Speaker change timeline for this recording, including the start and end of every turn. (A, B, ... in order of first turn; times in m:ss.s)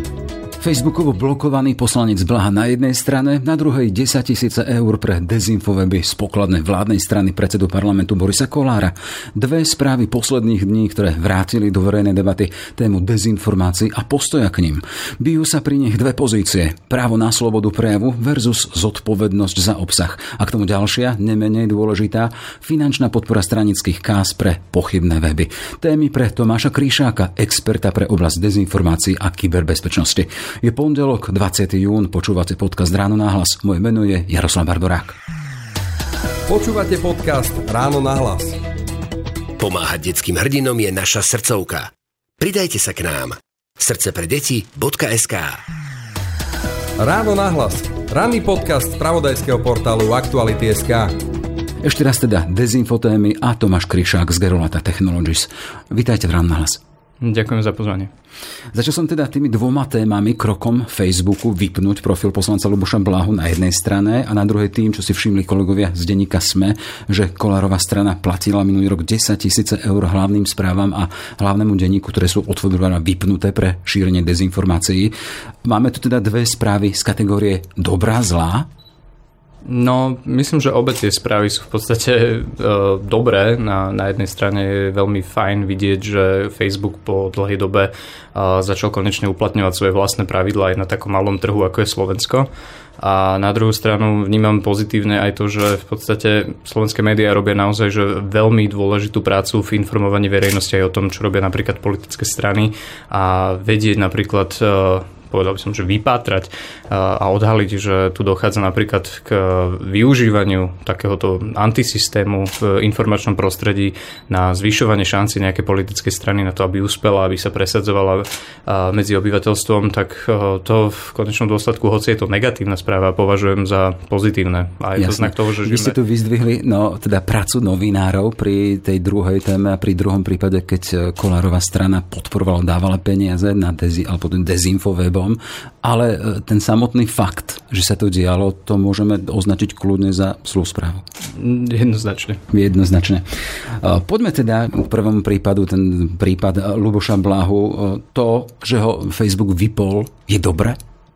0:00.6-0:35.2 A
0:36.5-0:38.6 B
0:39.6-0:45.6 C
0:47.0-0:51.1 B
0:51.8-0:56.8 A
0:57.2-0:58.1 D
0:58.7-1:15.1 A
1:15.6-1:18.7 A
1:19.6-1:32.5 D
1:33.0-2:06.0 D
2:05.0-2:21.0 A
2:21.3-2:22.4 D
2:22.5-2:23.2 A
2:23.8-2:30.8 A